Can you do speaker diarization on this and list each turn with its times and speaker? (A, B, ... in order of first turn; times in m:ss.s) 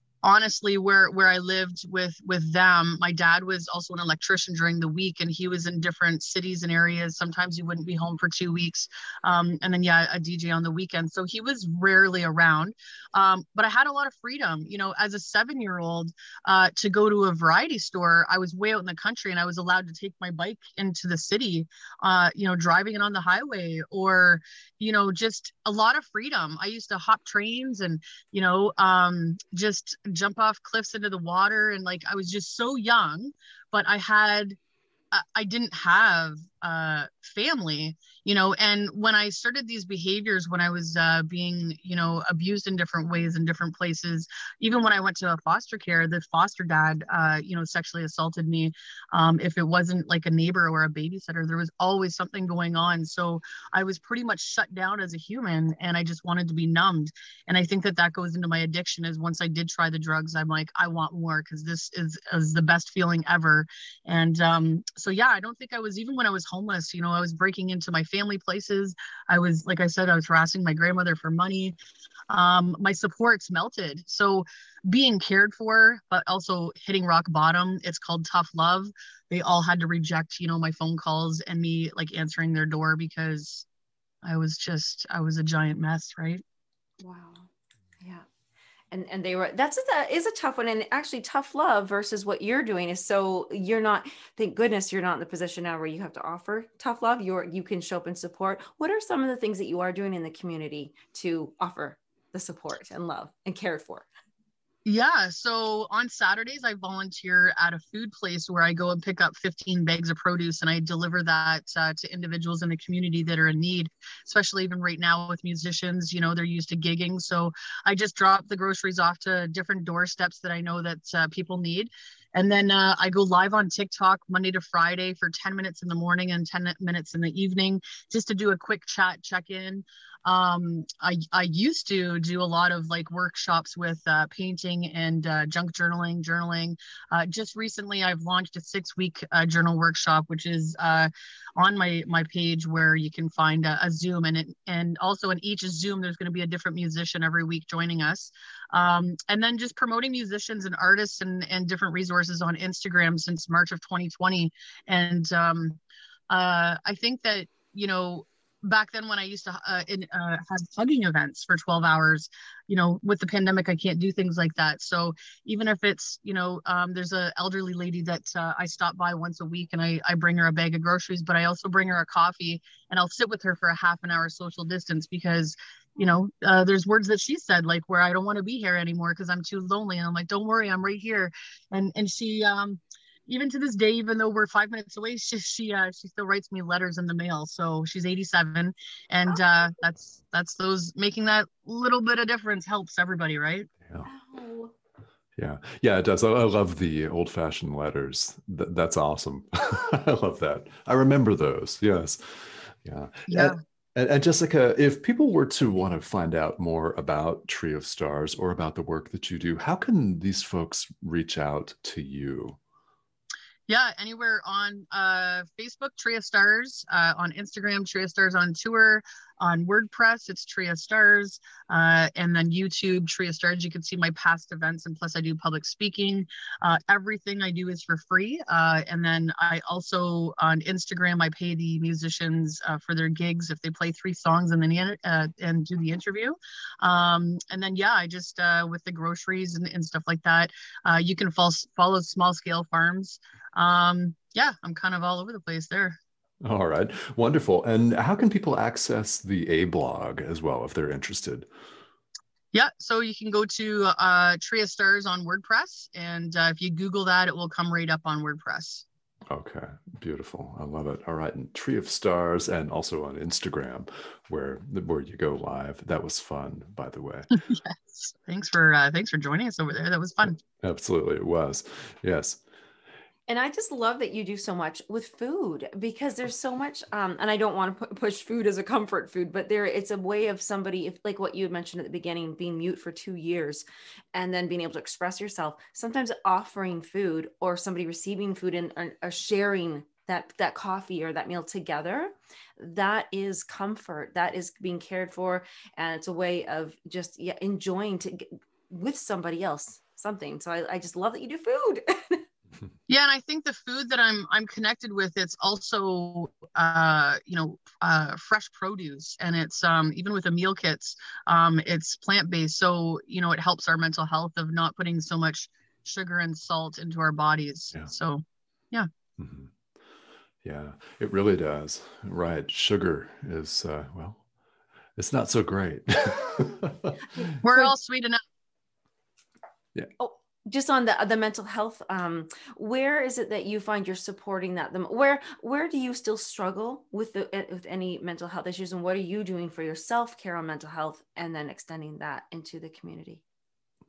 0:00.2-0:34.6 A
0:35.1-1:11.8 A
1:12.3-1:23.6 A
1:24.2-1:26.4 A
1:27.0-1:27.5 B
1:28.0-1:28.2 B
1:28.9-1:44.1 B
1:44.8-2:35.8 A
2:36.3-3:13.7 A
3:14.0-3:14.7 B
3:15.4-3:32.6 C
3:23.3-3:23.6 A
3:33.7-4:06.0 A
4:06.4-4:11.5 C
4:12.5-4:18.8 A
4:19.3-4:27.3 C
4:27.5-4:30.4 A
4:30.4-4:32.4 C
4:33.3-5:02.2 B
5:02.9-5:18.9 A
5:19.2-5:19.5 C
5:20.4-5:24.2 C
5:25.0-5:27.0 C
5:27.4-5:28.2 A
5:30.0-5:43.2 B